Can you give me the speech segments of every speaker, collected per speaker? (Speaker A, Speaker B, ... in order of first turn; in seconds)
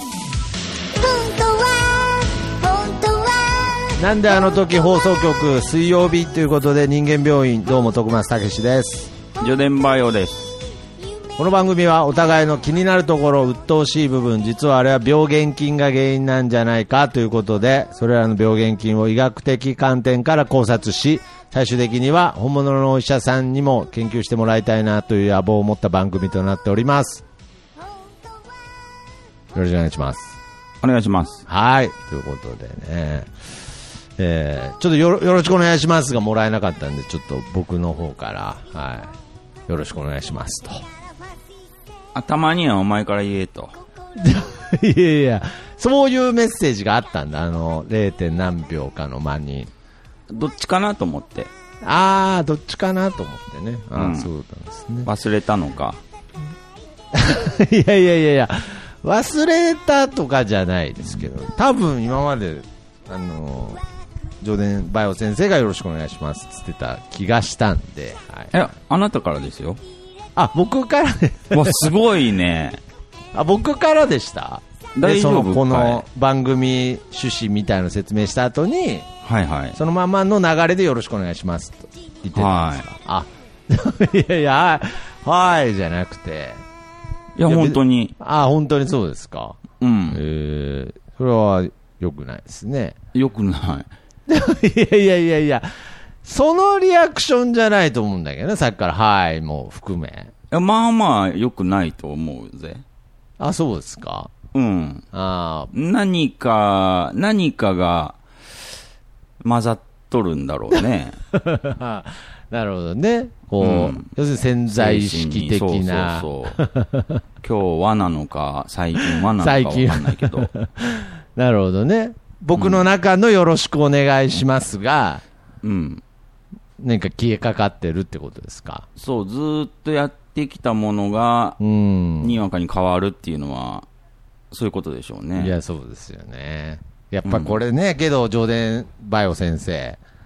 Speaker A: 0.9-4.9
Speaker B: 4.0-9.1, 11.4-27.2, 29.5-30.4, 31.5-33.3, 34.2-39.1, 39.7-40.8, 44.2-49.7, 51.8-55.1, 57.1-63.8, 64.4-68.5, 70.3-71.9, 73.3-79.1, 79.8-86.6, 87.5-93.0, 94.3-95.7, 96.2-100.3, 103.4-104.3, 105.1-105.7, 111.3-117.2, 119.0-125.2, 126.8-128.8, 131.6-132.3, 135.3-140.0
Speaker C: 9.4-10.5, 30.8-31.4, 42.1-43.7, 50.3-51.5, 53.9-54.3, 55.0-56.0, 68.5-69.8, 71.5-72.8, 75.0-76.0, 79.2-79.8, 82.3-82.8, 87.4-88.1, 89.8-90.2, 93.1-93.9, 100.5-102.8, 104.5-105.0, 105.7-108.2, 109.4-111.2, 113.6-114.1, 114.7-116.6, 117.4-120.5, 122.5-122.8, 125.6-126.0, 129.0-131.6, 132.2-133.9, 134.5-135.5, 137.2-137.6